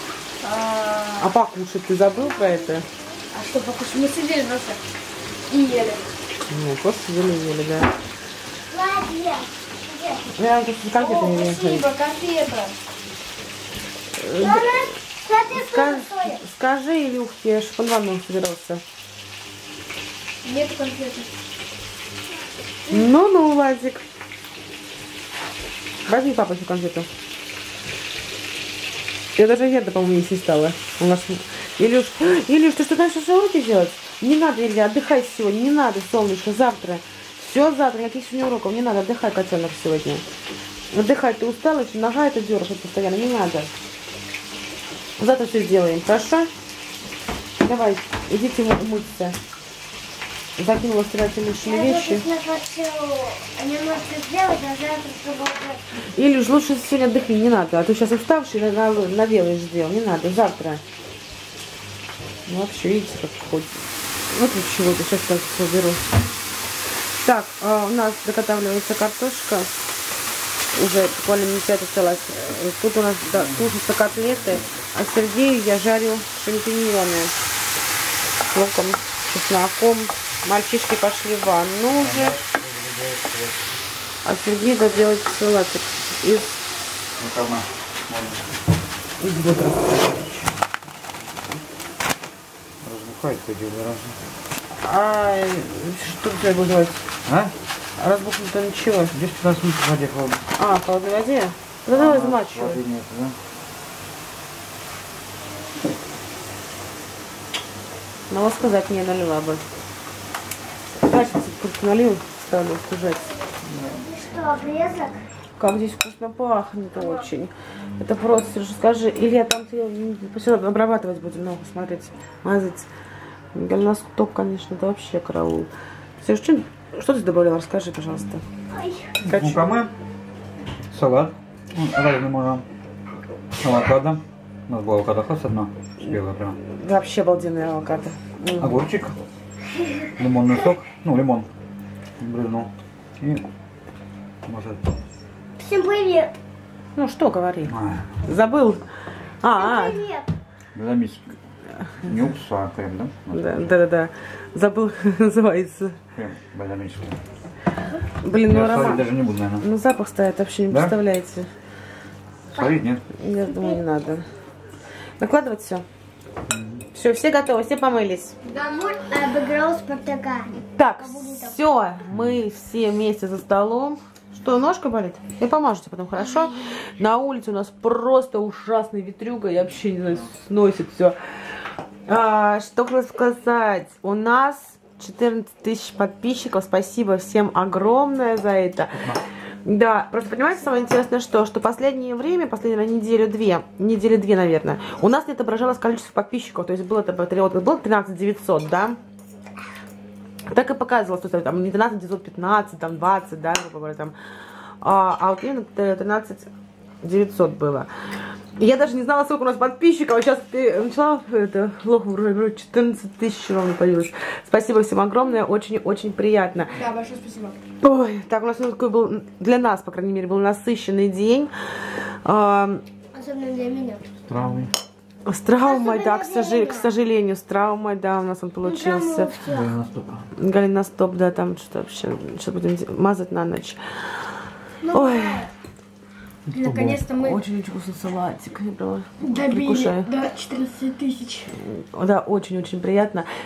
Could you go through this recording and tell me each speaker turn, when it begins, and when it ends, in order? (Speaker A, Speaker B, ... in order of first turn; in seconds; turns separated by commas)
Speaker A: 0.4-1.3, Speaker B: 1.2-2.9, Speaker A: 3.3-4.8, Speaker A: 5.5-6.0, Speaker B: 6.5-7.9, Speaker C: 8.7-10.2, Speaker B: 10.3-11.9, Speaker A: 11.0-12.8, Speaker B: 14.2-14.9, Speaker C: 14.4-16.4, Speaker B: 15.5-18.8, Speaker A: 20.4-21.3, Speaker B: 22.9-24.0, Speaker B: 26.1-27.1, Speaker B: 29.4-40.2, Speaker B: 40.9-43.7, Speaker B: 45.2-46.5, Speaker B: 47.6-49.4, Speaker B: 50.6-52.2, Speaker C: 51.6-55.8, Speaker B: 56.0-60.8, Speaker B: 62.5-66.0, Speaker B: 67.2-69.7, Speaker B: 70.7-77.3, Speaker D: 73.4-73.7, Speaker B: 78.5-82.4, Speaker D: 82.0-83.8, Speaker B: 84.2-86.6, Speaker D: 87.2-88.5, Speaker B: 89.2-90.5, Speaker D: 92.8-94.2, Speaker B: 94.8-97.1, Speaker D: 97.2-97.5, Speaker B: 98.0-99.1, Speaker D: 99.1-100.4, Speaker B: 100.5-102.8, Speaker D: 101.9-103.4, Speaker B: 108.3-109.6, Speaker B: 111.0-113.3, Speaker D: 113.7-114.0, Speaker C: 113.9-115.2, Speaker B: 115.6-122.9, Speaker B: 123.5-128.4, Speaker C: 128.7-129.1, Speaker D: 129.2-129.9, Speaker B: 129.2-129.8, Speaker D: 130.9-132.6, Speaker D: 133.6-136.6, Speaker B: 136.1-138.8, Speaker D: 138.6-139.2, Speaker D: 140.2-141.5, Speaker D: 142.2-143.4, Speaker D: 144.4-145.0, Speaker C: 145.6-146.3, Speaker B: 146.9-148.8, Speaker D: 147.7-148.2, Speaker B: 149.4-150.0, Speaker C: 149.6-150.3, Speaker D: 150.7-151.3, Speaker D: 152.0-153.8, Speaker B: 153.3-156.0, Speaker D: 156.1-157.2, Speaker B: 158.2-161.5, Speaker D: 158.3-159.6, Speaker D: 162.5-163.0, Speaker B: 163.1-164.2, Speaker B: 165.2-165.8, Speaker D: 166.5-166.8, Speaker B: 166.9-168.3, Speaker A: 168.5-168.9, Speaker C: 168.5-171.5, Speaker B: 170.5-181.2, Speaker B: 182.1-199.0, Speaker B: 200.5-204.1, Speaker B: 204.8-206.5, Speaker B: 207.0-207.9, Speaker B: 208.6-216.8, Speaker A: 216.8-217.6, Speaker B: 217.8-221.5, Speaker B: 222.2-222.8, Speaker C: 223.1-224.0, Speaker D: 224.3-224.7, Speaker B: 225.2-229.3, Speaker C: 225.6-226.9, Speaker C: 228.6-229.7, Speaker D: 229.4-230.3, Speaker B: 230.4-233.8, Speaker C: 234.8-235.5, Speaker B: 234.9-235.5, Speaker D: 236.5-237.0, Speaker A: 236.5-237.4, Speaker B: 237.1-240.1, Speaker A: 239.2-241.5, Speaker B: 241.5-243.3